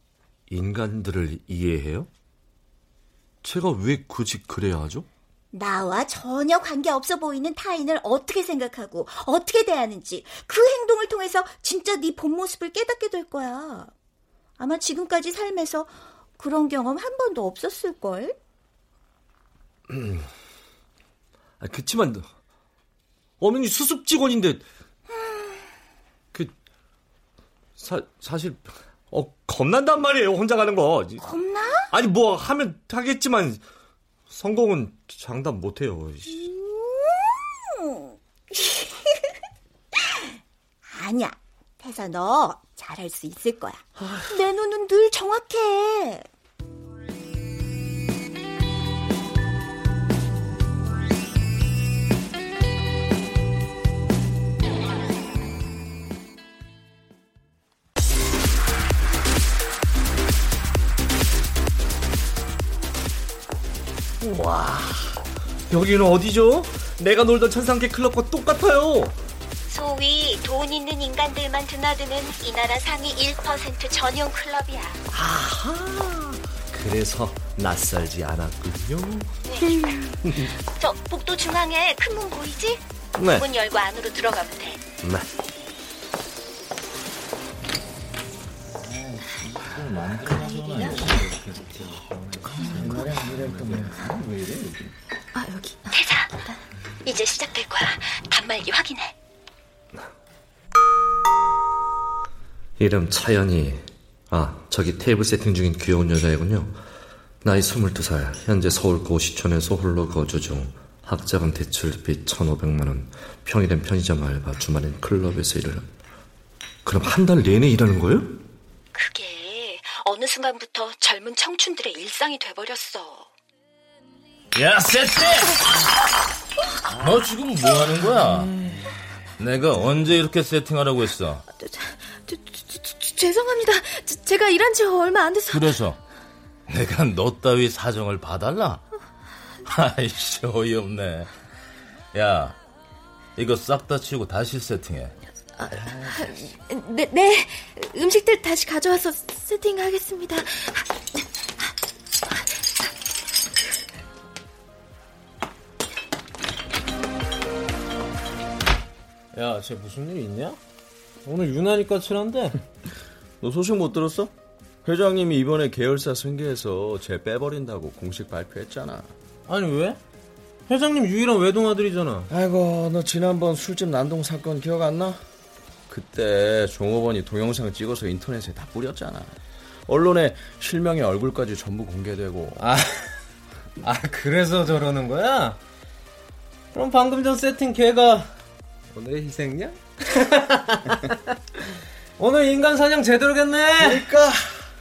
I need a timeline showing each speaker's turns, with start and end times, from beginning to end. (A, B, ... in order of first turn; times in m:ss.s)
0:00.5-0:02.1 A
0:03.4-0:05.1 A
0:05.5-0:13.9 B
0:14.6-0:18.4 B
0:19.9-0:20.3 A
0:21.6-0:22.3 A
0:23.4-0:24.7 A
0:25.1-0:25.6 B
0:27.8-0:31.2 A
0:31.2-0:31.9 B
0:31.9-0:33.6 A
0:34.3-0:36.5 A
0:36.3-0:39.3 B
0:40.0-0:40.4 B
0:40.9-0:46.3 B
0:44.0-0:44.3 A
1:04.2-1:09.2 A
1:09.7-1:15.0 B
1:15.1-1:19.3 A
1:19.5-1:22.8 B
1:20.2-1:20.5 A
1:23.2-1:23.5 A
1:23.3-1:24.8 B
1:25.0-1:25.3 A
1:30.7-1:34.8 C
1:32.6-1:32.9 D
1:35.4-1:35.9 D
1:35.9-1:36.3 B
1:37.0-1:39.2 B
1:42.8-1:46.8 A
1:47.4-1:55.9 A
1:56.8-1:58.4 A
1:59.0-2:03.3 B
2:04.6-2:05.6 E
2:07.0-2:08.6 E
2:09.4-2:11.4 E
2:11.5-2:15.8 D
2:15.5-2:16.0 E
2:16.7-2:18.8 E
2:19.7-2:21.3 E
2:22.1-2:22.6 E
2:23.4-2:25.2 E
2:25.6-2:30.9 D
2:39.3-2:40.6 F
2:41.2-2:42.6 F
2:43.4-2:44.3 C
2:44.8-2:49.1 C
2:49.5-2:50.0 F
2:50.7-2:52.3 F
2:52.3-2:55.2 C
2:55.9-3:02.6 C
3:02.6-3:03.1 F
3:03.8-3:05.6 F
3:06.7-3:08.3 F
3:08.9-3:10.9 F
3:12.2-3:14.1 F
3:13.8-3:14.4 C